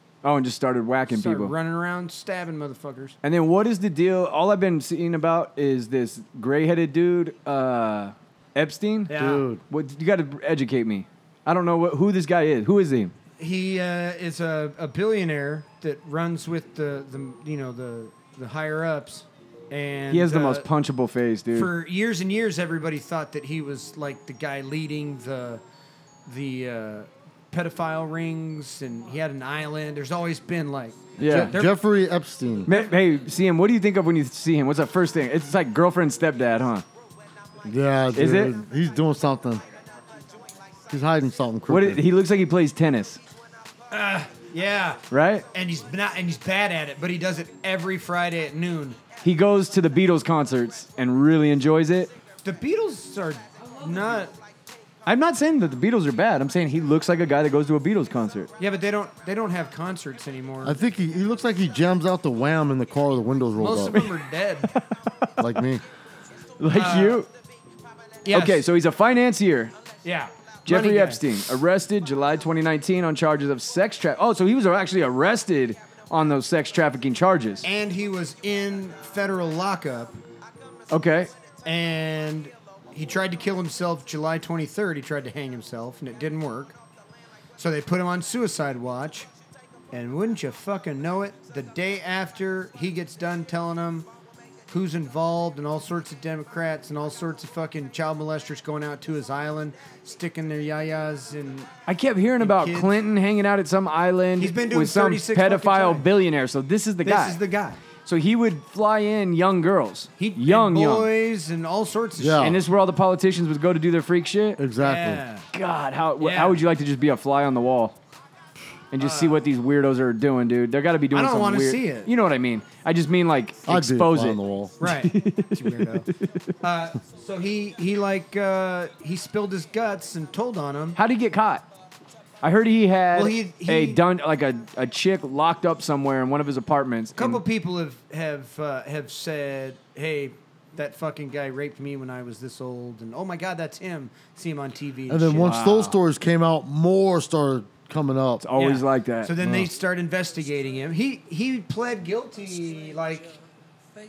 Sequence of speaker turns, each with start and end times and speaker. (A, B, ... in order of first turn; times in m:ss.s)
0:00.2-0:01.5 A
0:01.1-0:03.2 B
0:03.2-0:09.1 A
0:09.1-0:09.4 B
0:09.1-0:09.6 C
0:09.7-0:13.1 A
0:13.4-0:20.7 B
0:20.1-0:21.7 A
0:21.5-0:25.6 B
0:26.3-0:31.8 B
0:31.2-0:31.5 A
0:31.2-0:32.7 C
0:32.6-0:36.8 A
0:37.6-0:39.6 C
0:38.1-0:38.5 A
0:40.9-0:42.0 C
0:41.7-0:43.2 A
0:43.9-0:45.0 B
0:45.1-0:45.4 A
0:45.5-0:49.0 B
0:49.2-0:52.1 A
0:52.4-0:54.3 B
0:55.0-0:58.5 A
0:58.6-1:00.8 B
1:00.6-1:04.0 C
1:03.6-1:04.7 B
1:04.7-1:05.3 A
1:05.4-1:05.8 C
1:06.6-1:07.3 A
1:06.7-1:07.2 B
1:08.2-1:08.6 B
1:08.3-1:09.7 A
1:10.0-1:11.2 B
1:10.6-1:17.6 A
1:17.6-1:20.1 B
1:20.9-1:21.3 A
1:21.6-1:26.8 B
1:27.6-1:29.3 B
1:29.9-1:34.1 B
1:34.7-1:41.7 B
1:41.9-1:47.4 A
1:42.4-1:43.0 B
1:44.4-1:46.0 B
1:47.0-1:47.8 B
1:48.0-1:51.1 A
1:50.2-1:52.5 B
1:52.2-1:52.6 C
1:52.4-1:54.6 A
1:54.6-1:55.2 C
1:54.8-1:55.4 B
1:55.5-1:57.9 A
1:56.2-1:56.6 B
1:58.9-2:06.4 A
1:59.0-1:59.4 B
2:01.1-2:02.1 B
2:03.7-2:04.7 C
2:04.8-2:06.1 B
2:06.6-2:11.0 B
2:11.0-2:11.6 A
2:12.4-2:17.4 A
2:13.1-2:14.0 B
2:17.2-2:25.5 B
2:25.1-2:28.4 C
2:25.4-2:26.0 A
2:28.4-2:29.3 A
2:28.6-2:33.4 B
2:29.4-2:29.7 C